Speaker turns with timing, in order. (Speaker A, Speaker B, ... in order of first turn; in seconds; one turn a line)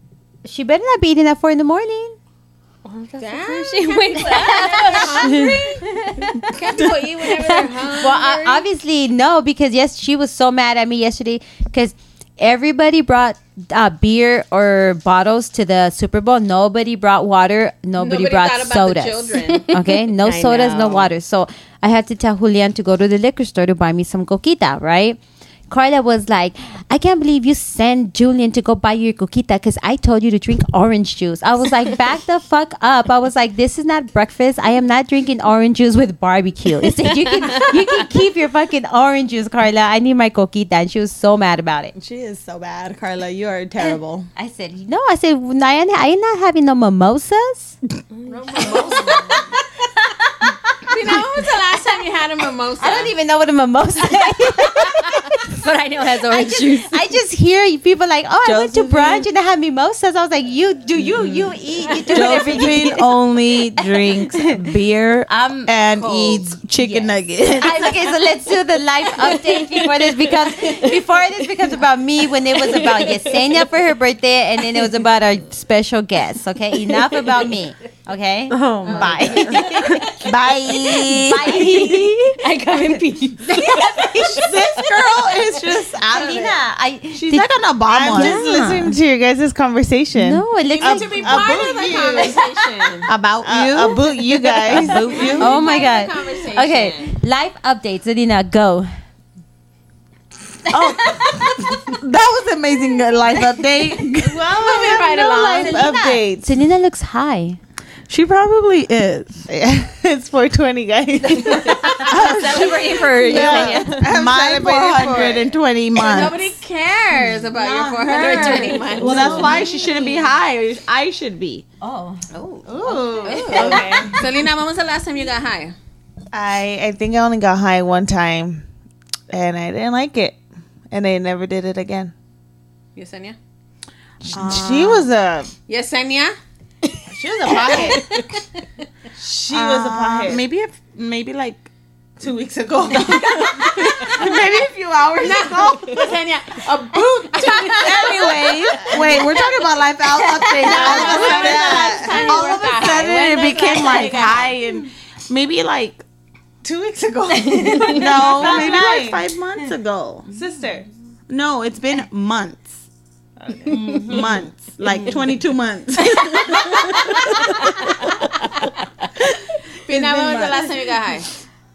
Speaker A: 0.4-2.2
Speaker B: 2.8-5.5
Speaker C: 3.2-8.7
Speaker A: 4.8-6.6
Speaker A: 7.3-41.9
Speaker C: 18.0-19.7
Speaker B: 19.5-21.1
Speaker D: 42.0-44.3
Speaker A: 43.8-47.8
Speaker B: 48.1-49.1
Speaker C: 48.3-49.5
Speaker A: 48.6-49.5
Speaker A: 50.1-50.6
Speaker C: 50.9-53.1
Speaker A: 52.8-55.4
Speaker B: 55.5-57.1
Speaker A: 56.2-64.7
Speaker D: 58.4-59.3
Speaker C: 62.0-62.3
Speaker D: 62.1-68.0
Speaker A: 65.3-65.7
Speaker C: 65.9-66.5
Speaker A: 66.8-84.5
Speaker B: 69.2-71.0
Speaker B: 72.5-73.6
Speaker B: 76.9-77.5
Speaker B: 78.5-80.0
Speaker D: 79.0-79.3
Speaker D: 80.2-81.6
Speaker B: 81.5-84.8
Speaker D: 84.3-86.6
Speaker A: 86.1-87.5
Speaker D: 87.1-88.4
Speaker E: 87.9-92.4
Speaker A: 88.1-89.0
Speaker A: 90.1-91.5
Speaker C: 90.7-93.1
Speaker D: 93.1-95.5
Speaker E: 93.4-95.4
Speaker C: 95.0-97.1
Speaker A: 95.4-98.9
Speaker A: 100.7-102.0
Speaker D: 100.7-104.4
Speaker E: 104.2-106.5
Speaker C: 104.5-106.0
Speaker A: 105.5-107.6
Speaker D: 108.1-109.4
Speaker E: 109.5-115.5
Speaker A: 111.2-114.0
Speaker B: 111.8-114.0
Speaker D: 112.0-116.5
Speaker C: 116.0-119.6
Speaker D: 117.5-121.6
Speaker A: 118.2-120.2
Speaker E: 118.2-119.7
Speaker A: 121.8-122.2
Speaker E: 122.3-124.1
Speaker A: 122.8-124.1
Speaker C: 123.2-125.7
Speaker B: 123.5-124.0
Speaker D: 123.5-124.1
Speaker E: 126.3-128.6
Speaker E: 129.3-130.4
Speaker E: 130.9-132.1
Speaker C: 132.9-133.3
Speaker D: 134.3-135.1
Speaker E: 134.3-135.5
Speaker C: 135.7-136.3
Speaker E: 137.1-138.1
Speaker B: 137.7-138.2
Speaker E: 139.2-140.4
Speaker D: 139.5-141.7
Speaker E: 142.2-145.8
Speaker D: 142.8-146.1
Speaker C: 143.3-144.1
Speaker C: 145.2-149.2
Speaker D: 147.8-156.0
Speaker E: 148.0-149.2
Speaker C: 150.5-154.5
Speaker E: 150.6-152.1
Speaker A: 150.7-151.2
Speaker E: 156.6-159.2
Speaker B: 157.4-158.0
Speaker D: 157.9-160.3
Speaker E: 160.3-160.8
Speaker D: 161.3-162.8
Speaker E: 163.4-164.3
Speaker A: 163.7-164.4
Speaker D: 163.7-167.2
Speaker C: 169.8-171.3
Speaker D: 169.9-170.6